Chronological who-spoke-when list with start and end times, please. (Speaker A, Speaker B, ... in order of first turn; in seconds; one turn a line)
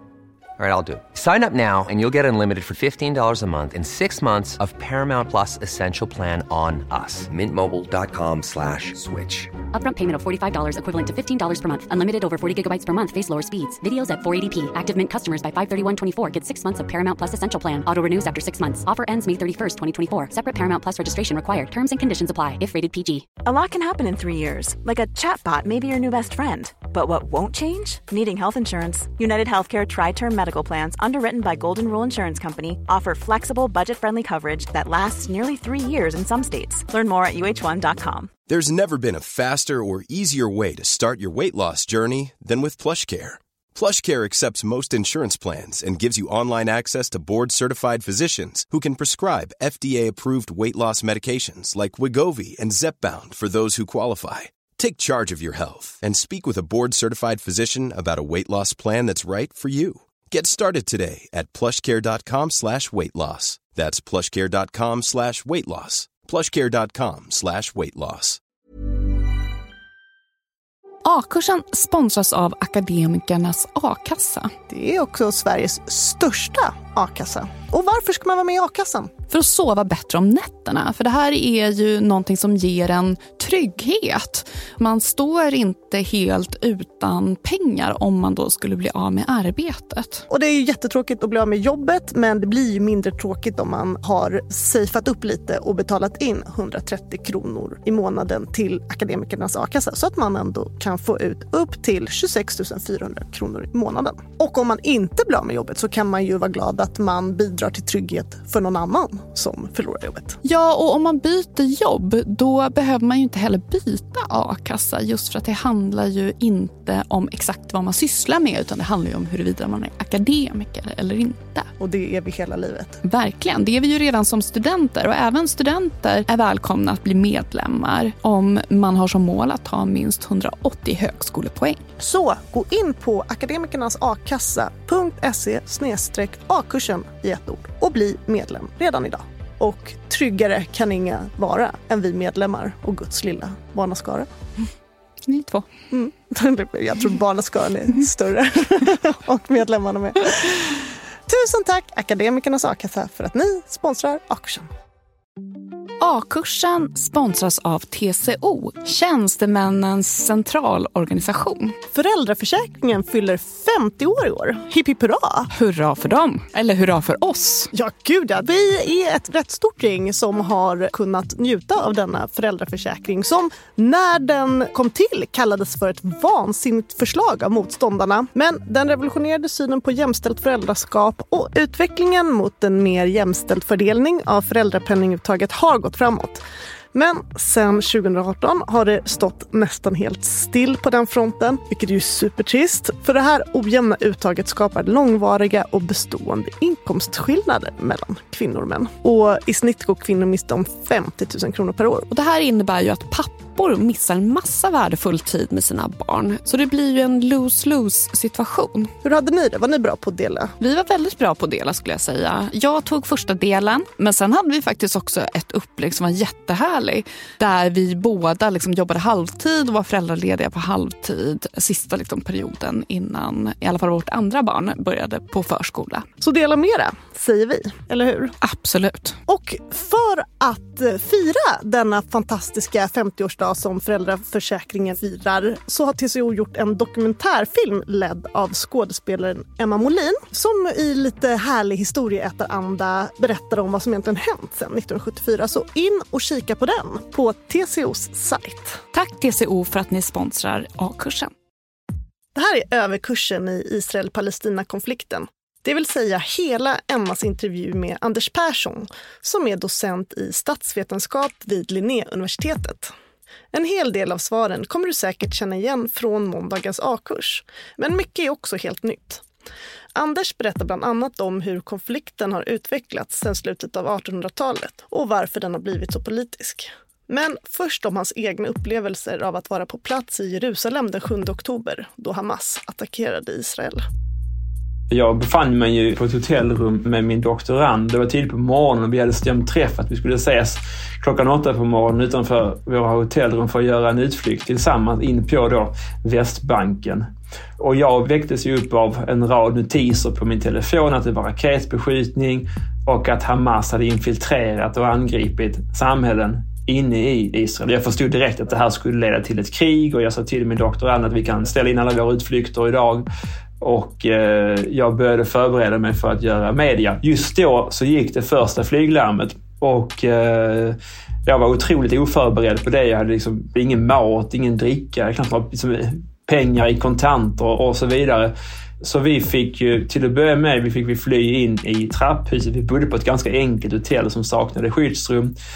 Speaker A: 0.6-9.5
Speaker B: 9.7-23.3
Speaker C: 23.4-38.3
Speaker D: 38.5-68.4
Speaker E: 71.0-74.5
Speaker F: 74.7-79.1
Speaker E: 79.3-90.3
Speaker F: 90.3-110.4
Speaker E: 110.5-121.7
Speaker F: 121.8-123.0
Speaker E: 123.0-131.8
Speaker F: 132.0-144.3
Speaker E: 145.3-145.7
Speaker F: 145.9-154.7
Speaker E: 156.0-161.8
Speaker F: 161.9-165.5
Speaker E: 165.5-167.7
Speaker F: 167.7-186.4
Speaker F: 186.9-202.1
Speaker E: 202.1-208.9
Speaker F: 209.0-210.5
Speaker E: 210.6-226.1
Speaker F: 226.2-228.3
Speaker E: 228.4-229.2
Speaker F: 229.3-248.8
Speaker E: 248.9-251.3
Speaker F: 252.3-262.9
Speaker F: 263.5-269.2
Speaker F: 269.9-283.8
Speaker G: 284.9-313.1
Speaker G: 313.6-335.3